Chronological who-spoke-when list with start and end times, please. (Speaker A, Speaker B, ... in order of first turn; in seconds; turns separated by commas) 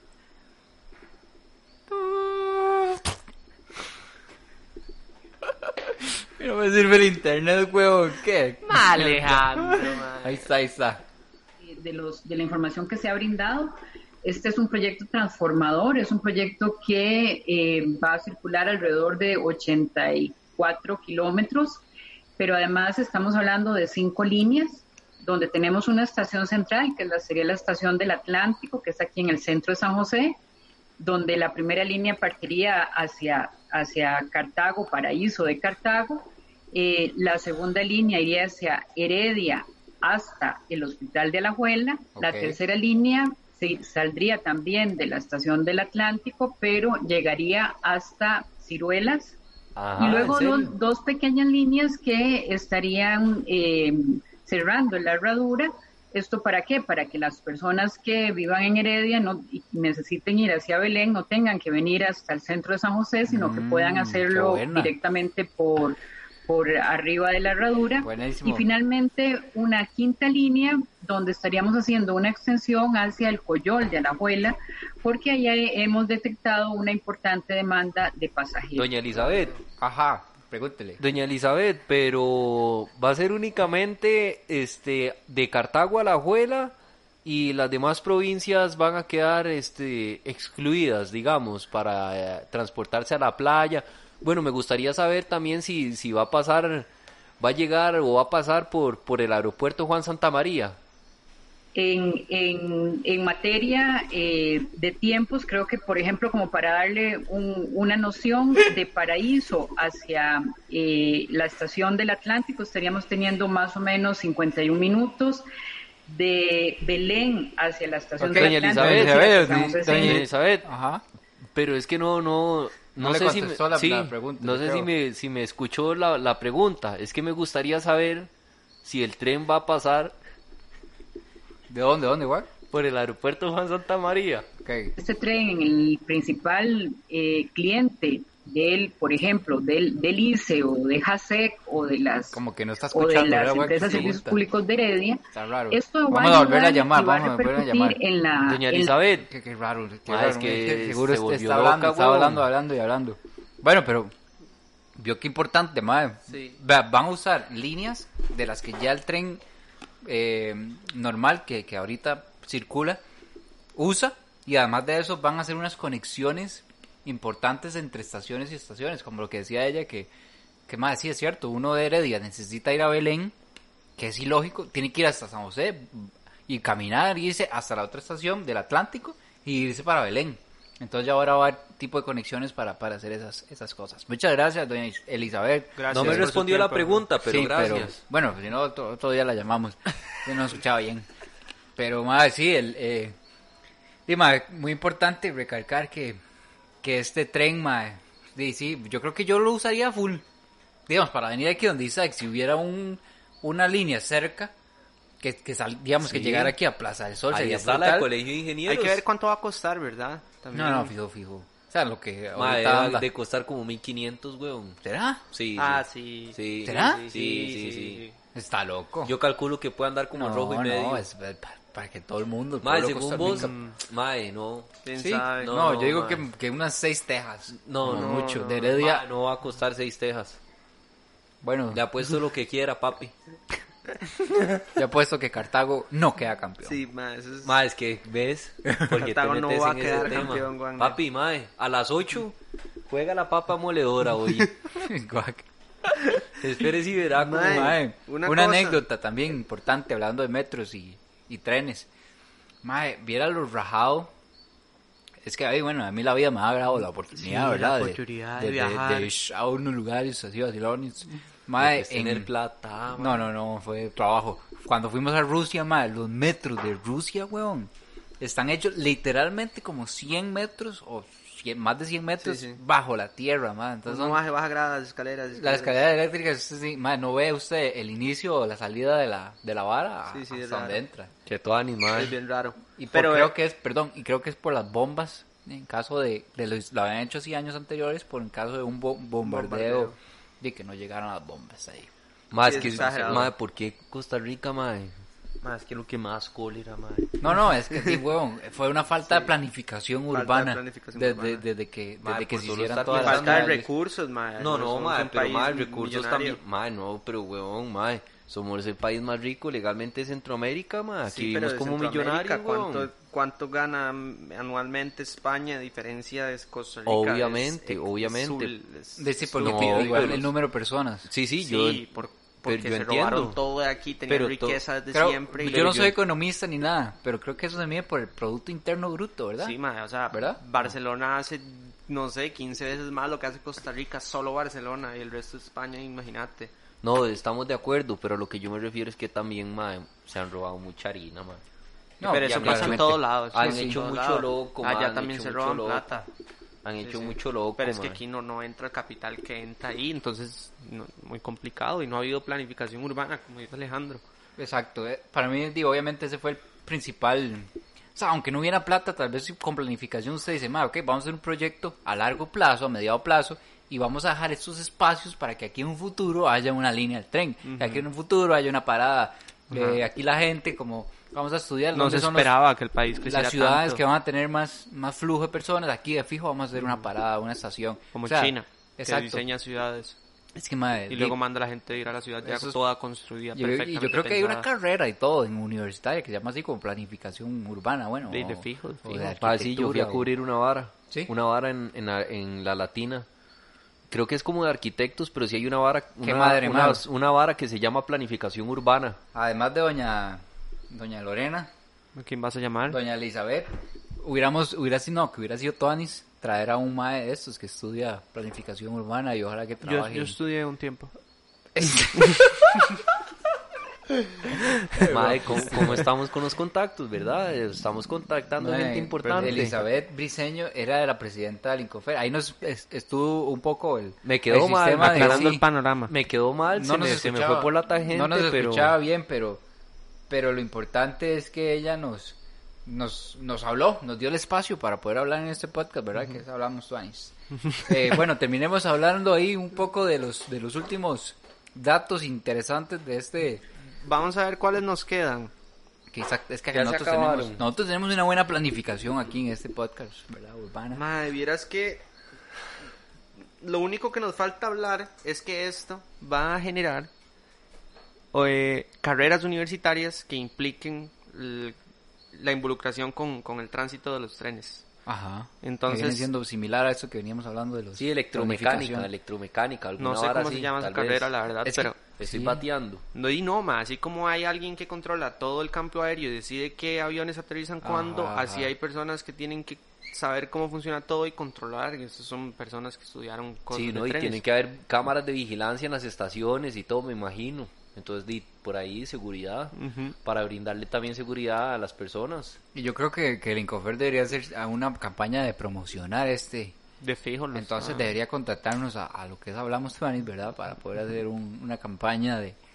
Speaker A: 1.9-3.1, Speaker A: 5.6-11.0, Speaker B: 8.7-10.4, Speaker C: 11.6-21.8, Speaker C: 22.4-30.4, Speaker C: 31.0-49.4, Speaker A: 42.2-42.6, Speaker D: 49.8-50.7, Speaker C: 50.0-78.9, Speaker A: 63.3-64.9, Speaker A: 68.0-68.7, Speaker D: 78.8-79.6, Speaker A: 79.8-81.0, Speaker D: 81.0-86.7, Speaker D: 87.2-96.9, Speaker D: 97.4-100.8, Speaker C: 101.8-115.5, Speaker C: 116.1-120.3, Speaker A: 118.2-121.0, Speaker D: 118.2-120.7, Speaker D: 121.5-128.3, Speaker A: 123.0-124.9, Speaker D: 128.8-130.2, Speaker A: 131.7-132.5, Speaker D: 132.7-134.5, Speaker A: 134.6-134.9, Speaker C: 135.0-142.4, Speaker A: 142.3-144.4, Speaker C: 142.9-149.0, Speaker D: 143.8-144.1, Speaker A: 145.3-148.0, Speaker D: 148.4-149.3, Speaker A: 149.3-154.1, Speaker D: 150.1-152.5, Speaker A: 155.0-159.4, Speaker B: 156.3-156.6, Speaker A: 160.0-163.0, Speaker A: 163.8-170.1, Speaker A: 170.7-173.3, Speaker A: 174.0-186.3, Speaker B: 185.8-187.1, Speaker D: 185.9-188.0, Speaker A: 187.2-191.1, Speaker A: 191.8-193.2, Speaker A: 194.1-196.2, Speaker A: 196.8-200.2, Speaker A: 200.9-204.5, Speaker A: 205.2-208.1, Speaker D: 206.1-206.6, Speaker D: 207.3-209.0, Speaker B: 208.7-210.9, Speaker A: 210.5-213.1, Speaker D: 212.4-214.8, Speaker A: 214.8-215.2, Speaker D: 215.3-218.0, Speaker B: 215.6-218.2, Speaker A: 216.7-217.1, Speaker A: 218.3-219.1, Speaker D: 219.1-221.1, Speaker A: 220.1-223.5, Speaker D: 222.6-224.8, Speaker B: 224.8-225.6, Speaker A: 225.0-229.1, Speaker D: 225.4-226.2, Speaker D: 227.5-230.4, Speaker B: 227.9-228.7, Speaker A: 231.4-232.2, Speaker D: 231.7-233.1, Speaker A: 234.8-236.8, Speaker B: 236.6-237.6, Speaker D: 237.4-242.3, Speaker A: 238.7-239.0, Speaker B: 238.9-241.0, Speaker D: 242.9-244.6, Speaker A: 244.7-246.2, Speaker D: 246.4-247.8, Speaker B: 247.2-248.8, Speaker A: 247.4-251.9, Speaker A: 252.6-254.1, Speaker A: 255.2-262.3, Speaker B: 257.1-259.1, Speaker D: 261.6-263.3, Speaker A: 262.9-274.2, Speaker B: 272.2-272.6, Speaker B: 273.9-275.9, Speaker A: 275.3-281.1, Speaker B: 280.1-280.8, Speaker D: 281.3-282.2, Speaker B: 281.9-283.3, Speaker A: 282.8-291.9, Speaker B: 289.2-290.0, Speaker D: 292.3-297.2, Speaker B: 292.4-293.3, Speaker A: 292.5-293.3, Speaker A: 297.2-303.7, Speaker B: 300.1-301.4, Speaker D: 302.0-303.6, Speaker B: 302.9-306.4, Speaker D: 304.4-312.9, Speaker B: 311.1-320.3, Speaker D: 316.9-318.5, Speaker A: 319.0-321.1, Speaker D: 319.4-320.3, Speaker D: 321.1-321.8, Speaker B: 321.4-325.9, Speaker D: 322.5-323.4, Speaker D: 324.1-324.6, Speaker A: 324.9-329.6, Speaker D: 325.5-325.9, Speaker B: 329.4-336.5, Speaker A: 330.1-330.7, Speaker D: 336.8-341.4, Speaker A: 342.0-343.8, Speaker B: 342.0-346.1, Speaker D: 342.2-346.0, Speaker D: 346.6-348.0, Speaker B: 346.8-354.0, Speaker A: 354.4-372.3, Speaker B: 367.4-367.8, Speaker B: 369.5-369.8, Speaker B: 371.7-373.8, Speaker A: 373.1-379.2, Speaker B: 376.6-376.8, Speaker B: 377.9-380.0, Speaker A: 380.4-381.2, Speaker B: 380.9-384.5, Speaker A: 382.2-382.6, Speaker A: 383.3-390.1, Speaker B: 388.1-389.2, Speaker D: 389.2-393.1, Speaker D: 393.9-399.0, Speaker A: 396.0-396.8, Speaker A: 399.1-401.5, Speaker B: 401.9-402.8, Speaker A: 402.7-410.2, Speaker B: 409.6-410.9, Speaker A: 411.6-412.7, Speaker B: 411.9-412.3, Speaker A: 414.7-415.9, Speaker D: 414.9-419.6, Speaker A: 418.4-425.4, Speaker B: 419.1-419.4, Speaker D: 424.1-428.7, Speaker B: 424.8-425.9, Speaker A: 426.6-429.4, Speaker A: 430.1-443.4, Speaker B: 443.8-445.3, Speaker A: 445.9-450.8, Speaker D: 446.5-447.4, Speaker B: 450.7-451.8, Speaker B: 453.4-456.9, Speaker B: 458.1-461.6, Speaker B: 462.1-464.6, Speaker A: 464.9-468.9, Speaker B: 465.4-466.1, Speaker D: 467.8-471.1, Speaker B: 469.8-471.8, Speaker A: 471.4-472.4, Speaker D: 472.0-472.8, Speaker B: 472.9-484.2, Speaker A: 477.6-478.5, Speaker D: 483.5-492.4, Speaker B: 489.5-490.0, Speaker A: 492.6-496.6, Speaker B: 496.8-497.9, Speaker A: 497.3-502.4